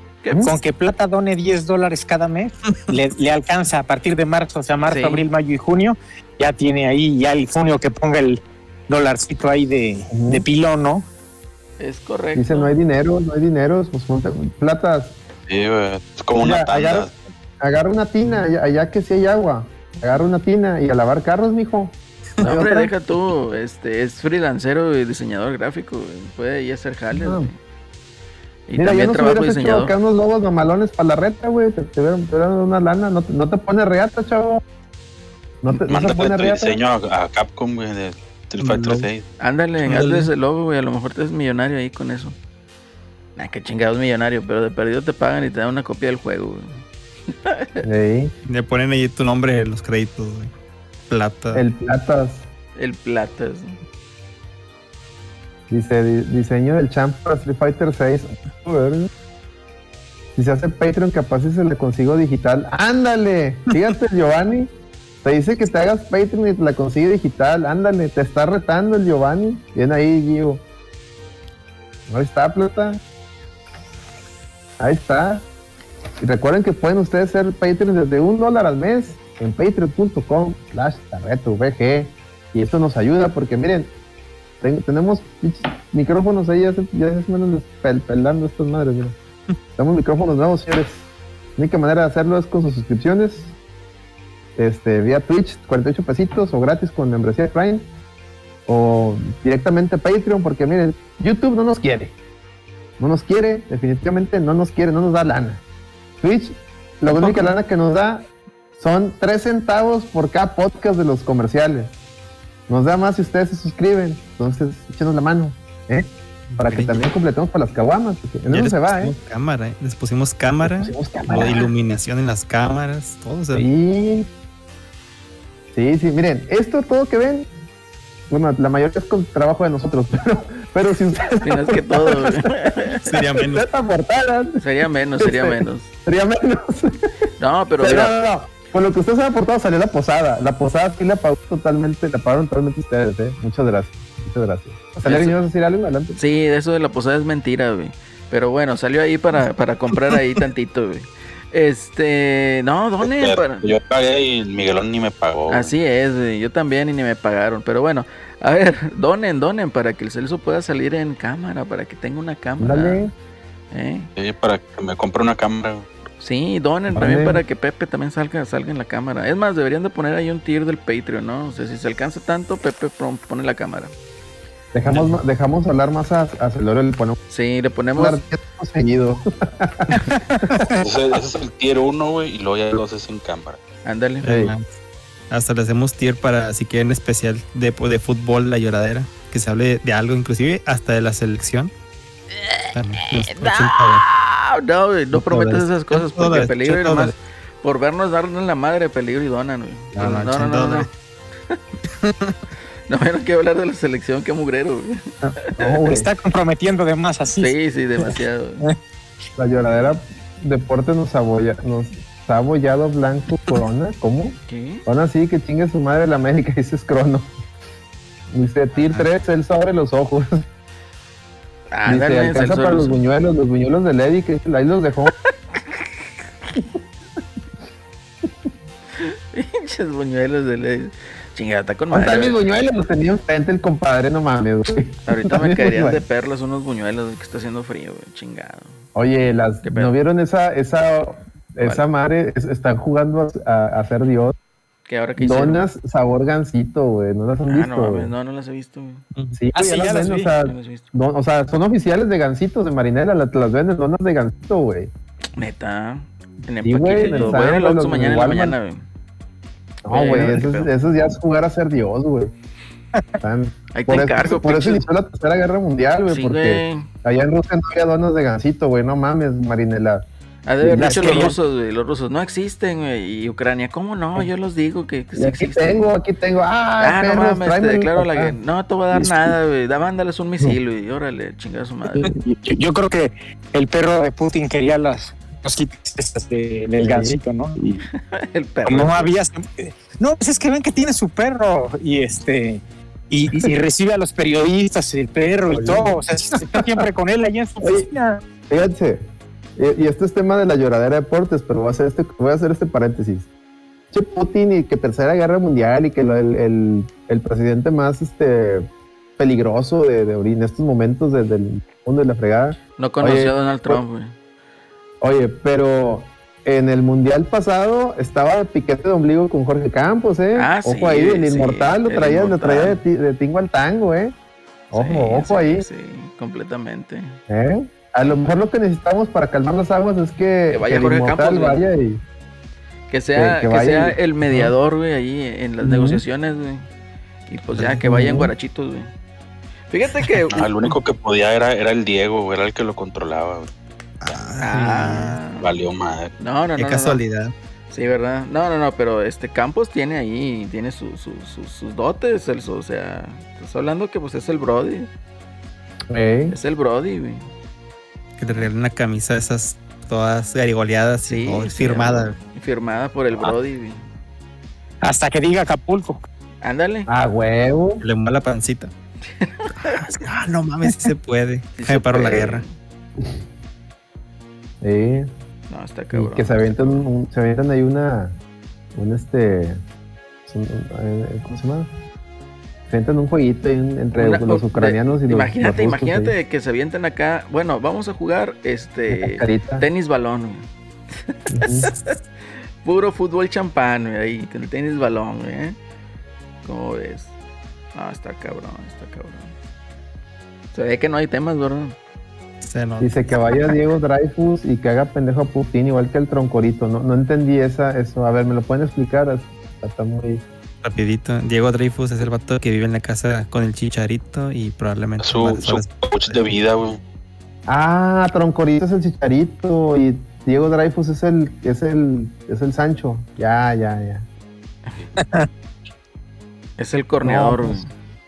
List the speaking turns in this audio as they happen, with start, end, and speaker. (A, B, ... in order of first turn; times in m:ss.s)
0:00.2-0:00.5 A
0:00.4-0:11.1 B
0:04.9-0:05.3 A
0:10.1-0:10.4 C
0:11.8-0:12.7 A
0:12.4-0:15.2 C
0:15.5-0:17.2 D
0:16.4-0:22.9 C
0:22.4-0:27.6 A
0:27.1-0:27.5 C
0:28.7-0:29.9 A
0:28.8-0:34.6 C
0:35.6-0:36.8 C
0:35.9-0:39.3 D
0:38.6-0:39.1 E
0:39.4-0:42.4 A
0:39.8-0:40.3 E
0:43.4-0:47.8 A
0:47.8-0:48.3 C
0:48.5-0:50.5 E
0:51.1-0:51.6 E
0:51.5-0:52.5 C
0:52.8-0:53.8 A
0:55.7-0:59.1 C
1:00.4-1:04.7 C
1:05.2-1:10.6 C
1:12.1-1:13.0 C
1:14.8-1:15.5 C
1:16.2-1:23.9 C
1:24.6-1:29.2 C
1:29.8-1:31.1 C
1:31.6-1:33.6 C
1:34.6-1:37.9 C
1:38.7-1:42.2 C
1:43.0-1:45.6 C
1:46.2-1:48.3 C
1:47.1-1:47.5 E
1:48.8-1:51.9 C
1:52.7-1:59.1 C
1:56.5-1:57.1 E
1:58.5-2:03.6 E
2:00.6-2:01.6 C
2:03.5-2:04.3 C
2:05.7-2:07.5 C
2:08.3-2:12.5 C
2:11.4-2:13.1 A
2:13.0-2:13.6 E
2:13.4-2:14.6 C
2:14.6-2:15.9 A
2:15.2-2:17.1 C
2:17.4-2:18.2 A
2:17.8-2:26.2 C
2:25.0-2:25.4 A
2:26.2-2:33.7 A
2:33.0-2:35.7 D
2:35.5-2:43.0 A
2:42.6-2:43.1 C
2:43.7-2:44.1 A
2:44.2-2:45.9 D
2:46.2-2:53.9 A
2:46.9-2:47.4 C
2:54.7-2:57.2 C
2:54.9-2:55.2 E
2:57.3-2:58.2 A
2:58.0-3:00.7 C
3:00.8-3:03.6 D
3:03.8-3:04.2 A
3:04.2-3:04.6 E
3:04.2-3:04.5 C
3:05.3-3:11.7 E
3:12.3-3:20.9 A
3:12.7-3:14.1 E
3:15.1-3:15.6 C
3:15.9-3:17.2 E
3:19.9-3:20.9 E
3:22.0-3:22.4 E
3:22.9-3:25.8 A
3:25.2-3:26.1 C
3:25.9-3:28.8 B
3:27.4-3:28.6 A
3:29.4-3:37.3 C
3:34.5-3:34.8 A
3:38.3-3:40.5 C
3:38.8-3:39.1 E
3:41.7-3:43.0 A
3:41.9-3:45.1 C
3:49.0-3:52.7 A
3:51.9-3:56.0 C
3:55.1-3:58.8 A
3:59.0-4:04.4 C
3:59.6-3:59.9 A
4:01.6-4:01.9 A
4:04.9-4:05.7 A
4:05.2-4:08.1 C
4:07.5-4:09.0 A
4:09.4-4:14.9 C
4:09.5-4:10.2 B
4:10.4-4:10.9 A
4:15.4-4:18.9 A
4:16.6-4:18.6 C
4:17.0-4:17.3 E
4:19.8-4:22.3 C
4:19.9-4:20.7 A
4:23.2-4:30.1 C
4:23.7-4:24.8 A
4:26.1-4:26.9 A
4:30.5-4:35.9 A
4:30.6-4:31.3 C
4:30.8-4:31.3 B
4:35.2-4:38.4 C
4:36.8-4:42.1 A
4:38.9-4:39.4 C
4:42.0-4:47.8 B
4:46.8-4:47.2 C
4:47.9-4:49.1 A
4:48.6-4:58.2 B
4:55.5-4:56.9 C
4:57.6-4:57.9 C
4:58.4-5:03.3 C
5:03.9-5:13.8 C
5:12.8-5:14.2 A
5:15.0-5:24.2 C
5:20.4-5:22.8 A
5:24.7-5:25.7 C
5:24.7-5:27.2 A
5:27.3-5:32.0 C
5:30.5-5:31.6 A
5:32.9-5:36.7 A
5:33.2-5:34.0 C
5:34.3-5:34.5 E
5:35.6-5:36.0 C
5:37.3-5:38.9 A
5:37.5-5:37.9 E
5:37.8-5:38.3 C
5:39.7-5:40.5 A
5:40.3-5:43.5 D
5:44.0-5:45.3 E
5:44.4-5:45.5 A
5:45.3-5:46.2 D
5:46.2-5:47.0 A
5:46.6-5:47.3 E
5:47.7-5:54.9 A
5:55.9-5:56.4 C
5:56.3-5:57.3 A
5:58.2-6:02.2 E
6:01.0-6:03.8 A
6:04.8-6:06.0 B
6:06.4-6:06.9 A
6:06.9-6:07.8 C
6:07.8-6:08.7 E
6:09.1-6:09.8 A
6:09.6-6:12.5 E
6:11.6-6:12.6 A
6:14.6-6:15.1 C
6:15.5-6:16.9 A
6:15.9-6:18.2 C
6:18.7-6:19.6 C
6:20.3-6:21.7 C
6:22.7-6:26.1 C
6:24.0-6:32.0 A
6:28.9-6:29.7 C
6:31.3-6:31.7 C
6:32.6-6:35.6 A
6:36.4-6:37.1 A
6:37.7-6:39.3 A
6:40.5-6:41.8 A
6:42.4-6:43.3 E
6:42.8-6:50.2 C
6:50.6-6:56.3 E
6:55.0-6:56.8 D
6:57.5-7:04.1 C
7:05.0-7:05.3 B
7:06.6-7:07.7 A
7:07.0-7:07.6 C